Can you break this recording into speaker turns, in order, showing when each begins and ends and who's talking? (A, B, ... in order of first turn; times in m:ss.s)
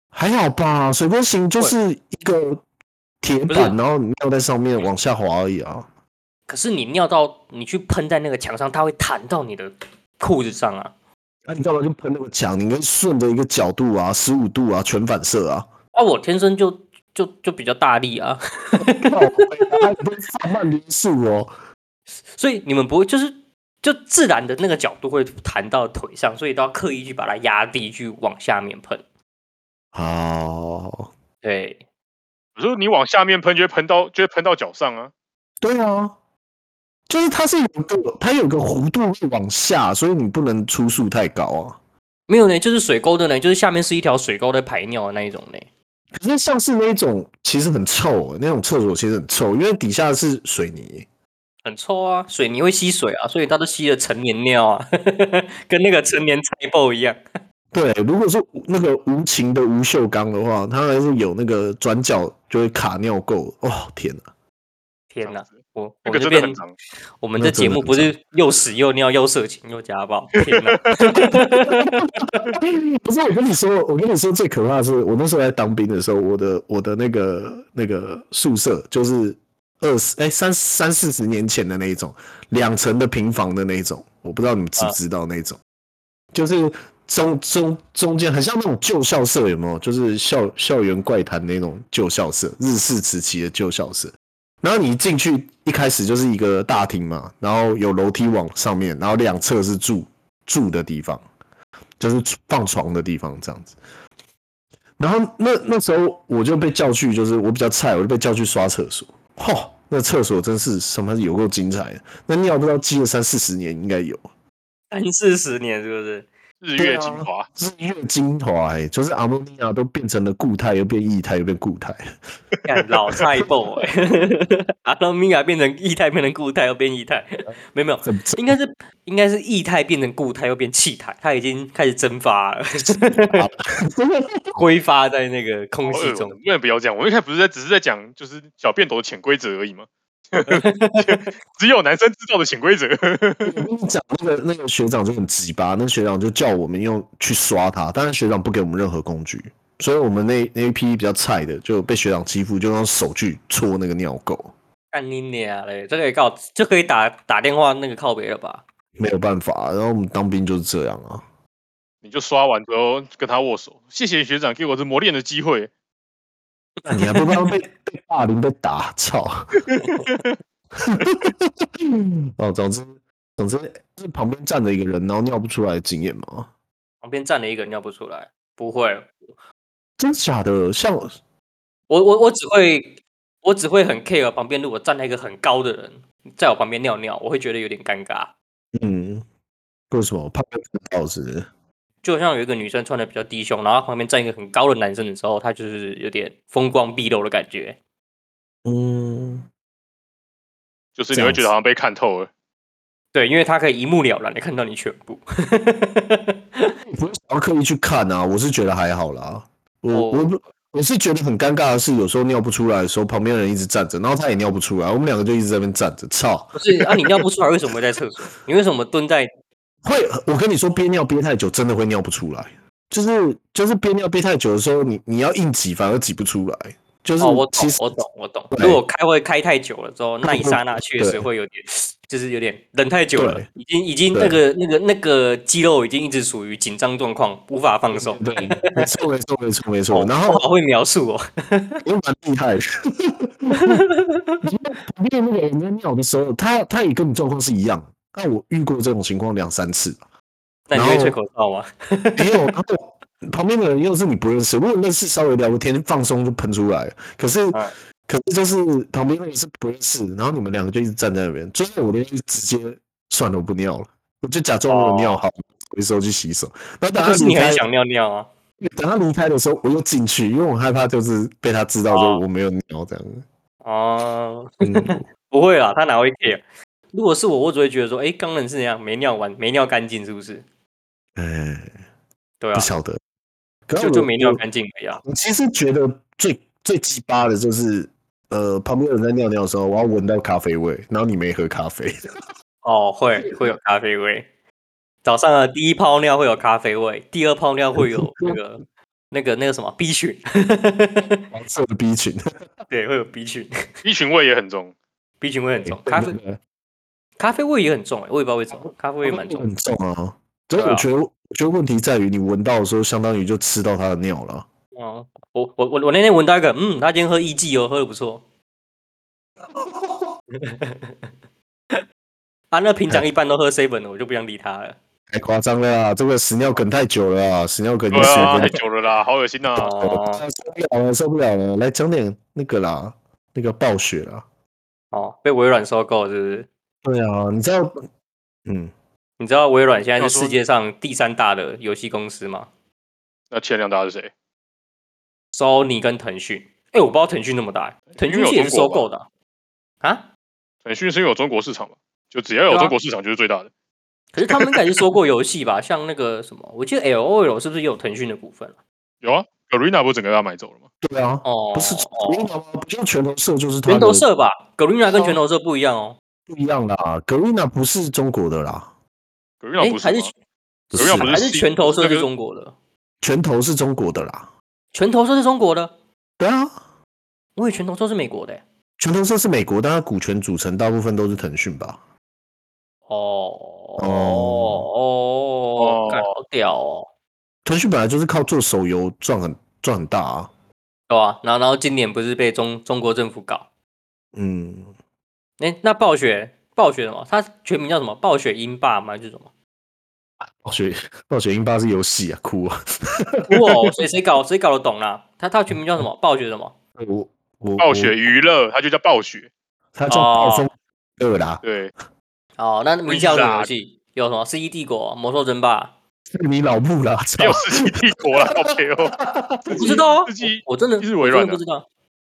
0:00.1-0:02.6 A
0:03.2-0:05.9 A
0:03.5-0:03.8 B
0:06.5-0:10.9 B
0:11.5-0:15.7 A
0:15.9-0:19.8 B
0:18.8-0:21.5 A
0:22.3-0:29.0 B
0:29.9-0:31.1 A
0:31.4-0:31.8 B
0:32.6-0:35.1 C
0:35.6-0:36.2 A
0:37.1-0:41.8 A
0:42.3-0:45.7 B
0:46.2-0:51.1 A
0:51.6-0:57.2 B
0:57.7-1:04.2 A
1:05.1-1:06.6 B
1:05.2-1:06.8 C
1:07.2-1:12.1 B
1:07.4-1:08.1 A
1:11.2-1:25.6 A
1:26.3-1:41.2 A
1:42.0-1:43.8 A
1:45.0-1:54.2 A
1:54.9-1:56.3 B
1:56.6-1:57.5 C
1:56.8-2:02.1 A
2:02.6-2:13.5 B
2:08.0-2:08.6 A
2:13.0-2:14.6 A
2:14.6-2:16.4 B
2:15.9-2:23.6 C
2:20.5-2:21.3 B
2:23.4-2:34.5 A
2:34.9-2:38.6 B
2:39.0-2:41.2 A
2:42.0-2:45.7 C
2:46.8-2:47.5 B
2:46.9-2:49.5 A
2:50.8-2:56.5 A
2:57.0-2:59.2 B
3:00.0-3:01.1 A
3:01.9-3:08.3 B
3:08.8-3:09.2 A
3:09.9-3:11.5 A
3:12.0-3:17.8 B
3:18.6-3:19.5 A
3:21.0-3:22.3 C
3:21.1-3:21.5 A
3:23.1-3:26.8 B
3:26.8-3:37.2 A
3:29.9-3:30.3 B
3:36.6-3:39.3 B
3:39.8-3:48.8 A
3:47.2-3:58.9 B
3:50.2-3:51.3 A
3:53.2-3:53.5 A
3:54.1-3:54.4 A
3:57.9-4:00.4 A
3:59.9-4:01.8 B
4:01.8-4:03.8 A
4:03.5-4:04.5 B
4:04.4-4:10.0 A
4:10.7-4:12.5 B
4:10.7-4:11.2 A
4:12.2-4:27.7 A
4:24.7-4:25.2 B
4:27.0-4:28.3 B
4:28.6-4:33.2 A
4:31.9-4:32.2 B
4:33.6-4:40.4 B
4:34.6-4:35.0 A
4:41.2-4:41.7 A
4:42.4-4:42.7 B
4:42.5-4:43.0 A
4:43.7-4:44.4 A
4:43.8-4:45.0 B
4:45.0-4:52.0 A
4:52.6-4:54.3 B
4:53.3-4:53.5 A
4:55.0-5:01.2 B
4:57.8-4:58.4 A
5:01.3-5:02.2 A
5:02.7-5:03.6 B
5:03.8-5:04.7 C
5:05.2-5:06.2 B
5:05.7-5:06.4 A
5:07.2-5:09.4 B
5:09.0-5:14.5 A
5:10.6-5:10.9 B
5:14.8-5:18.2 B
5:19.6-5:20.1 A
5:20.3-5:21.0 B
5:22.5-5:24.8 B
5:25.1-5:28.6 A
5:27.9-5:28.6 B
5:27.9-5:29.7 C
5:29.6-5:30.2 B
5:29.6-5:34.2 A
5:34.9-5:36.5 B
5:36.8-5:37.8 A
5:38.5-5:38.7 A
5:39.2-5:42.5 B
5:40.0-5:40.4 C
5:43.3-5:44.1 C
5:45.3-5:49.1 B
5:48.0-5:48.9 C
5:50.6-5:53.5 C
5:52.5-5:52.8 B
5:54.1-5:58.5 B
5:59.0-6:00.6 C
6:00.8-6:04.1 A
6:01.2-6:02.3 B
6:03.7-6:06.0 B
6:06.3-6:08.7 A
6:09.4-6:10.1 C
6:09.6-6:10.1 B
6:10.7-6:11.2 A
6:10.7-6:12.1 C
6:10.8-6:12.5 B
6:13.0-6:14.3 A
6:14.7-6:15.7 B
6:16.2-6:16.6 A
6:17.4-6:18.4 B
6:18.8-6:21.8 A
6:22.9-6:26.9 B
6:23.8-6:24.7 A
6:25.6-6:26.0 C
6:27.4-6:30.3 A
6:30.9-6:33.5 B
6:34.2-6:34.7 A
6:35.4-6:39.3 B
6:40.4-6:43.5 A
6:43.3-6:46.5 B
6:46.8-6:48.2 A
6:47.6-6:49.3 C
6:49.8-6:51.4 A
6:49.9-6:50.5 B
6:51.4-6:51.7 C
6:52.4-6:55.7 B
6:52.9-6:53.5 C
6:56.1-6:59.6 A
6:57.2-6:59.0 C
6:59.5-7:01.6 B
6:59.5-7:01.4 C